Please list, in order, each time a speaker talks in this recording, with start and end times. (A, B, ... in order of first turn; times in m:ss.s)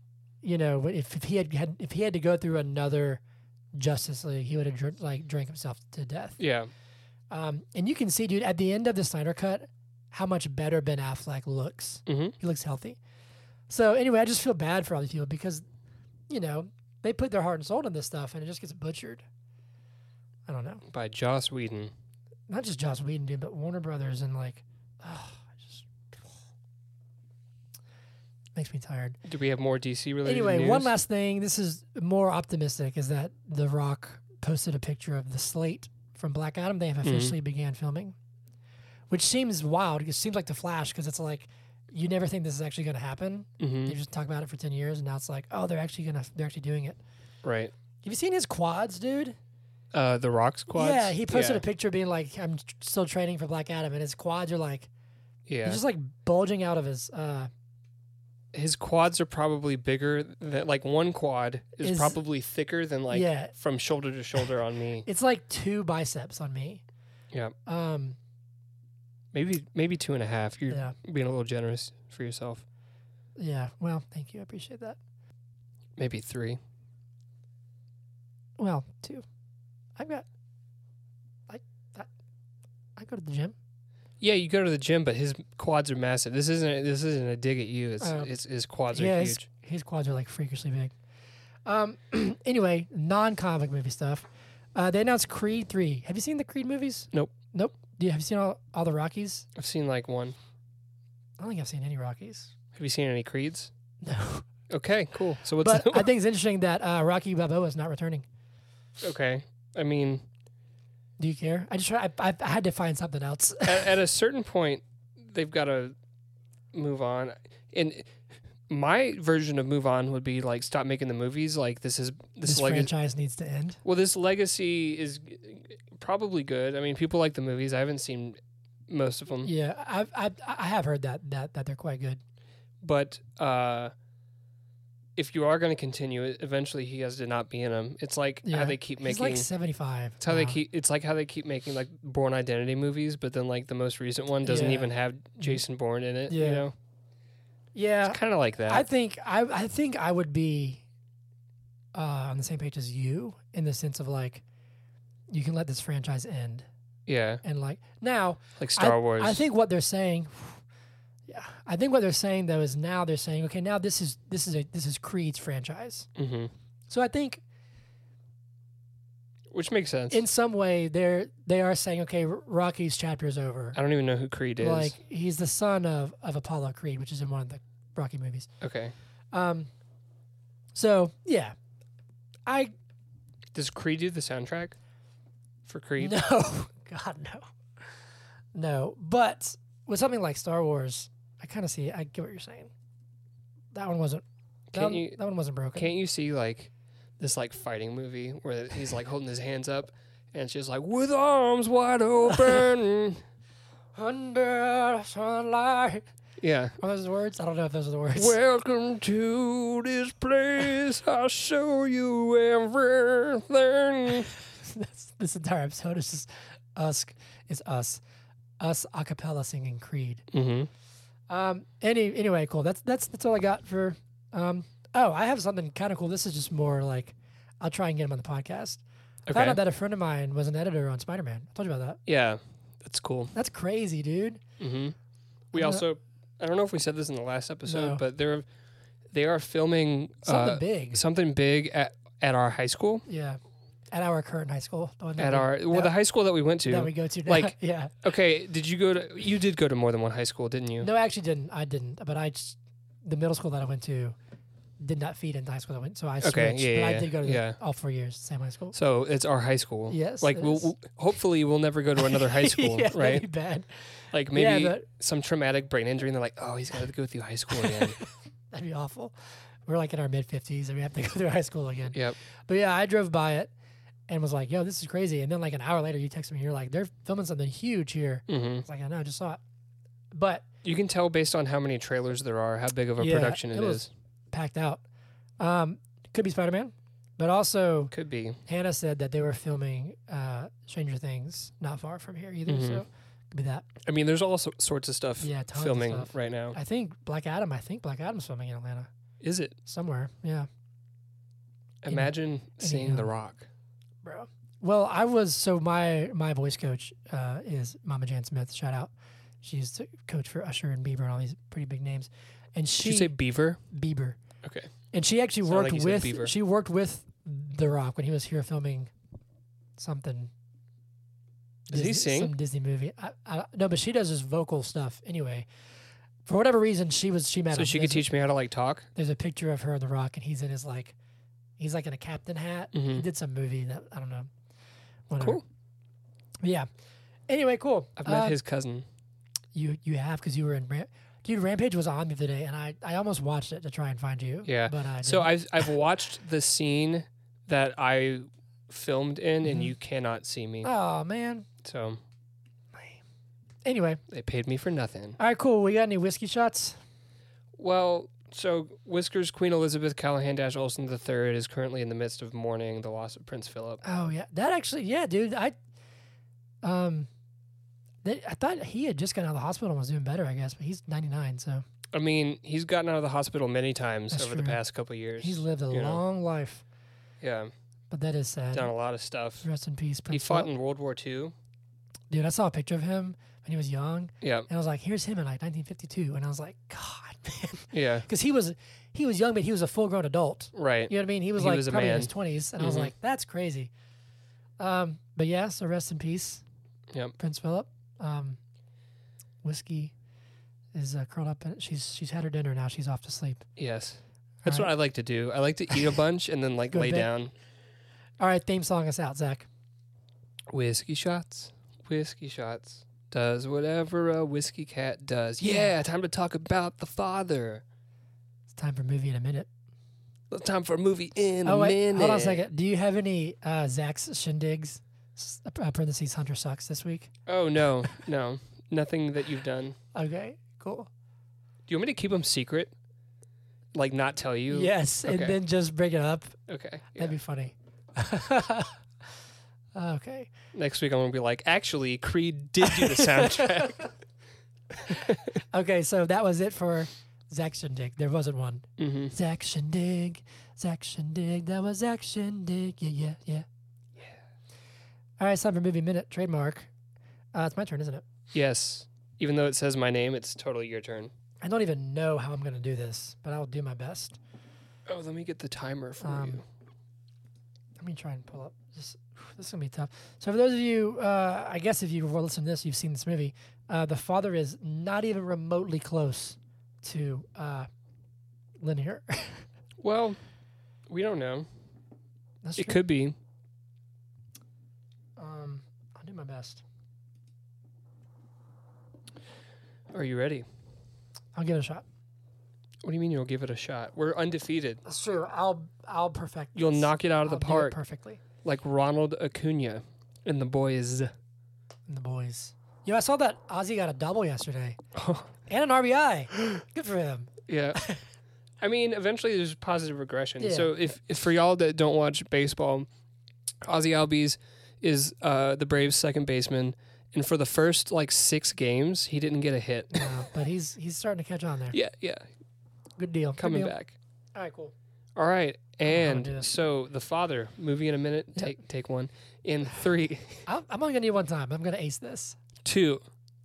0:00.4-0:03.2 A
0:03.7-0:06.4 A
0:06.4-0:06.7 B
0:07.3-0:13.0 A
0:12.1-0:12.3 B
0:13.7-0:15.6 A
0:16.3-0:19.2 A
0:20.4-0:20.8 A
0:20.9-0:21.9 B
0:22.5-0:25.8 A
0:28.5-0:29.2 A
0:29.2-0:30.9 B
0:30.2-0:38.1 A
0:37.0-0:37.3 B
0:39.1-0:47.0 A
0:43.6-0:44.0 B
0:47.4-0:47.7 B
0:48.0-0:49.4 A
0:49.9-0:51.6 B
0:50.7-0:54.9 A
0:55.5-0:55.8 B
0:55.6-0:57.5 A
0:58.5-1:05.1 B
1:01.8-1:02.2 A
1:03.1-1:03.5 A
1:05.0-1:06.8 A
1:07.6-1:08.2 A
1:09.3-1:12.6 B
1:10.7-1:11.0 A
1:13.4-1:15.0 A
1:16.0-1:16.6 B
1:18.6-1:19.2 A
1:20.0-1:20.2 A
1:21.5-1:22.1 A
1:23.0-1:23.6 A
1:24.2-1:29.4 B
1:28.0-1:28.3 A
1:28.9-1:30.9 A
1:31.6-1:39.5 A
1:39.6-1:40.4 B
1:41.4-1:42.5 A
1:42.7-1:43.7 B
1:44.0-1:44.5 A
1:44.7-1:46.1 B
1:45.6-1:48.2 A
1:49.0-1:50.2 B
1:51.2-1:54.0 A
1:53.6-1:55.9 B
1:56.7-1:58.1 B
1:58.7-2:02.9 B
2:02.4-2:03.8 A
2:03.8-2:09.5 B
2:09.4-2:12.2 A
2:12.8-2:13.9 B
2:15.2-2:19.5 B
2:18.4-2:20.6 A
2:20.2-2:26.7 B
2:24.4-2:25.6 A
2:26.3-2:26.6 A
2:27.7-2:30.8 A
2:28.0-2:28.8 B
2:31.9-2:34.4 A
2:35.3-2:36.6 A
2:37.1-2:37.4 B
2:37.4-2:40.6 A
2:38.6-2:39.4 B
2:41.3-2:46.1 A
2:46.2-2:46.5 B
2:46.9-2:47.4 A
2:49.5-2:50.2 B
2:50.1-2:53.8 A
2:53.7-2:54.9 B
2:54.6-2:58.5 A
2:58.6-2:58.9 B
2:59.3-2:59.7 A
3:00.7-3:01.5 A
3:02.4-3:02.7 A
3:03.5-3:04.8 B
3:05.6-3:06.2 B
3:06.0-3:07.4 A
3:08.5-3:12.7 A
3:13.7-3:14.2 A
3:14.7-3:15.2 B
3:14.7-3:15.9 A
3:15.7-3:23.2 B
3:22.3-3:22.7 A
3:23.9-3:26.0 A
3:26.4-3:26.8 B
3:26.8-3:28.4 A
3:28.1-3:34.3 B
3:34.3-3:38.0 A
3:38.6-3:40.2 A
3:40.3-3:40.7 B
3:41.3-3:52.0 A
3:49.3-3:49.6 B
3:52.0-3:53.3 B
3:53.3-3:54.4 A
3:54.6-3:55.0 B
3:55.5-3:58.4 B
3:55.5-3:55.8 A
3:57.6-3:58.0 A
3:59.1-4:03.0 B
4:00.2-4:01.0 A
4:03.1-4:03.4 A
4:03.9-4:05.9 A
4:05.2-4:10.9 B
4:06.6-4:07.9 A
4:10.8-4:14.2 A
4:14.8-4:18.7 A
4:16.2-4:17.6 B
4:18.7-4:23.3 B
4:19.9-4:20.7 A
4:22.0-4:24.8 A
4:24.1-4:28.0 B
4:27.5-4:29.1 A
4:29.6-4:33.5 A
4:34.1-4:39.4 A
4:38.3-4:38.6 B
4:40.1-4:40.4 A
4:40.6-4:43.9 B
4:43.0-4:44.8 A
4:45.4-4:47.9 A
4:47.9-4:48.4 B
4:48.4-4:53.6 A
4:52.5-4:52.8 B
4:53.8-4:56.6 B
4:55.2-4:58.9 A
4:59.2-4:59.5 B
4:59.6-5:00.5 A
5:01.8-5:03.5 B
5:01.9-5:03.1 A
5:04.0-5:13.1 A
5:12.8-5:13.6 B
5:13.7-5:14.2 A
5:14.4-5:14.7 B
5:14.9-5:18.9 A
5:15.4-5:16.3 B
5:19.8-5:20.3 A
5:21.7-5:25.5 A
5:21.7-5:22.3 B
5:26.2-5:28.0 A
5:27.5-5:28.9 B
5:28.9-5:30.9 A
5:31.6-5:34.3 A
5:32.7-5:33.0 B
5:35.1-5:35.4 A
5:35.2-5:35.4 B
5:36.4-5:36.7 A
5:37.3-5:38.4 A
5:38.0-5:38.8 B
5:39.5-5:45.3 A
5:44.4-5:50.7 B
5:49.4-5:49.7 A
5:50.6-5:51.5 A
5:51.6-5:52.0 B
5:53.6-5:54.0 A
5:54.1-5:55.2 B
5:55.2-5:56.8 A
5:57.6-6:03.8 B
6:03.8-6:05.5 A
6:06.6-6:07.1 A
6:08.0-6:11.6 A
6:11.9-6:16.0 B
6:14.1-6:14.6 A
6:15.2-6:16.6 A
6:17.2-6:17.5 B
6:17.9-6:18.7 A
6:18.5-6:19.4 B
6:19.4-6:20.5 A
6:20.1-6:21.3 B
6:22.1-6:33.7 A
6:24.2-6:24.5 B
6:27.7-6:28.1 B
6:30.5-6:32.9 B
6:34.6-6:36.4 A
6:37.2-6:38.4 A
6:39.4-6:39.9 A
6:40.7-6:43.4 A
6:43.6-6:47.3 B
6:44.4-6:44.7 A
6:46.7-6:47.1 A
6:48.2-6:49.5 A
6:50.5-6:57.6 B
6:55.4-6:55.7 A
6:58.5-6:59.5 A
7:00.3-7:02.4 B
7:01.4-7:07.1 A
7:07.2-7:09.8 B
7:09.9-7:10.9 A
7:11.7-7:12.7 B
7:13.7-7:15.4 B
7:14.5-7:16.4 A
7:16.5-7:17.1 B
7:16.9-7:18.8 A
7:19.7-7:20.3 A
7:20.5-7:23.9 B
7:22.6-7:23.9 A
7:24.8-7:33.4 A
7:24.8-7:25.3 B
7:28.8-7:29.1 B
7:35.2-7:36.7 A
7:37.3-7:38.0 A
7:38.3-7:41.1 B
7:41.4-7:44.2 A
7:44.8-7:46.4 B
7:46.0-7:46.4 A
7:47.8-7:57.7 A
7:58.6-7:59.4 A
7:59.8-8:00.2 B
8:00.9-8:01.5 B
8:02.4-8:02.8 A
8:02.6-8:03.2 B
8:05.2-8:06.6 A
8:09.9-8:10.4 B
8:11.3-8:11.8 A
8:12.8-8:14.8 B
8:14.8-8:18.2 A
8:16.5-8:17.8 B
8:18.4-8:21.1 B
8:21.9-8:24.8 A
8:24.9-8:25.3 B
8:25.5-8:28.0 A
8:27.5-8:27.8 B
8:28.6-8:32.9 B
8:30.4-8:30.7 A
8:33.6-8:40.2 B
8:39.9-8:41.8 A
8:41.7-8:42.2 B
8:43.0-8:43.7 A
8:43.4-8:43.9 B
8:44.3-8:44.7 A
8:45.2-8:50.4 B
8:45.8-8:46.5 A
8:50.4-8:52.4 A
8:52.6-8:53.0 B